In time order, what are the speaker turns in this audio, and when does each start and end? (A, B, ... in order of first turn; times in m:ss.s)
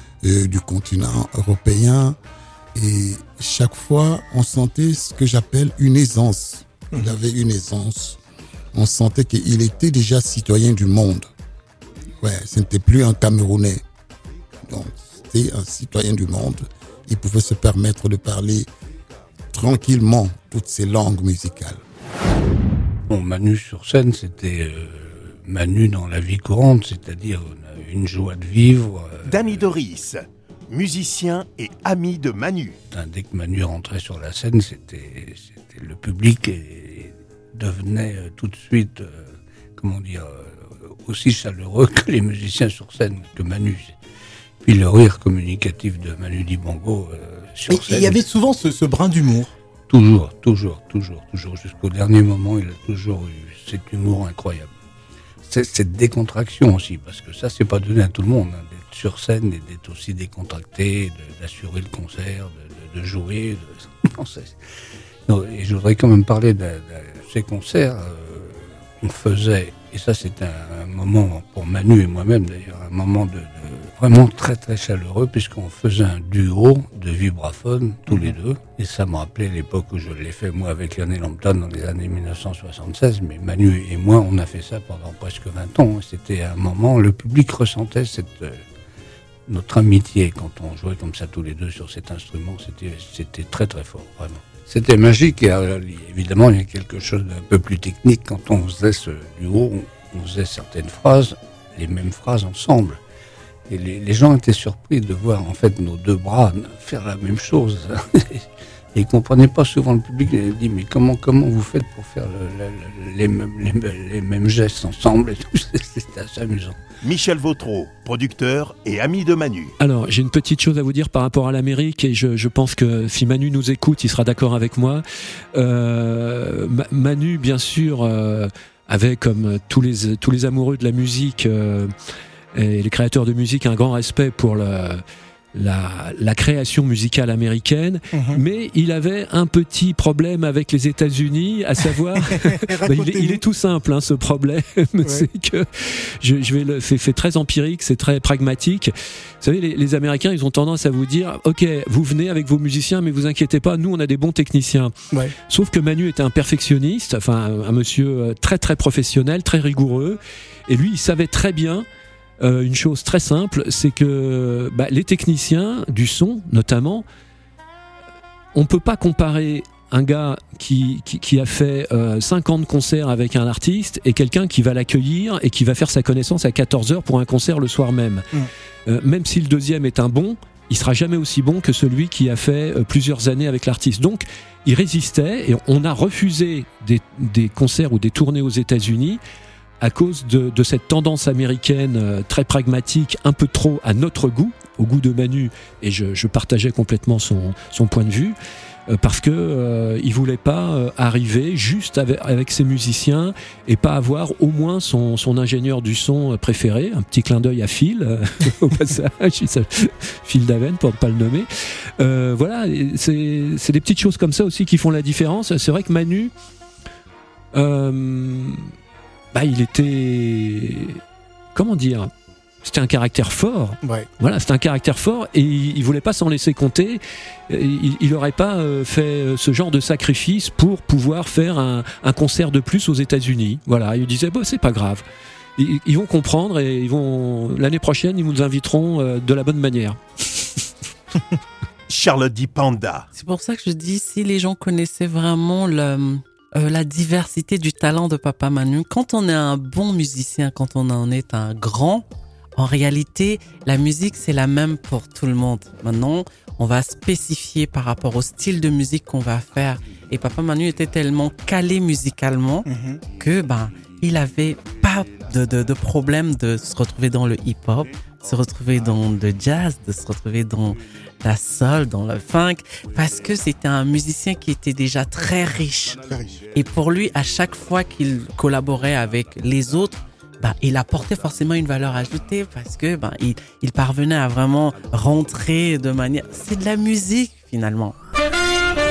0:00.2-0:02.2 A
0:02.8-0:08.2 A
0:08.7-0:11.3 A
0:12.2-0:13.8 A
0:14.7-0:18.7 A
0:19.5-0:21.8 A
0:23.1-0:29.7 B
0:29.2-0:32.8 C
0:32.9-0:44.0 B
0:44.6-0:48.2 B
0:47.7-0:49.5 D
0:49.9-0:54.7 B
0:55.5-1:04.6 B
1:05.3-1:28.6 B
1:29.5-1:43.0 B
1:43.7-1:56.8 B
1:57.0-1:59.7 C
1:59.8-2:05.0 E
2:05.5-2:11.9 E
2:12.5-2:15.0 E
2:15.5-2:34.9 E
2:18.1-2:18.4 D
2:22.7-2:23.4 D
2:35.5-2:41.9 E
2:42.4-2:47.0 E
2:48.5-2:58.2 E
2:58.9-3:09.2 E
3:09.8-3:18.4 E
3:18.9-3:31.5 E
3:32.0-3:36.3 E
3:37.5-3:38.6 E
3:39.3-3:41.0 E
3:41.5-3:42.1 E
3:42.6-3:55.0 E
3:55.6-4:00.0 E
4:01.9-4:03.1 C
4:03.1-4:12.0 F
4:12.6-4:48.0 F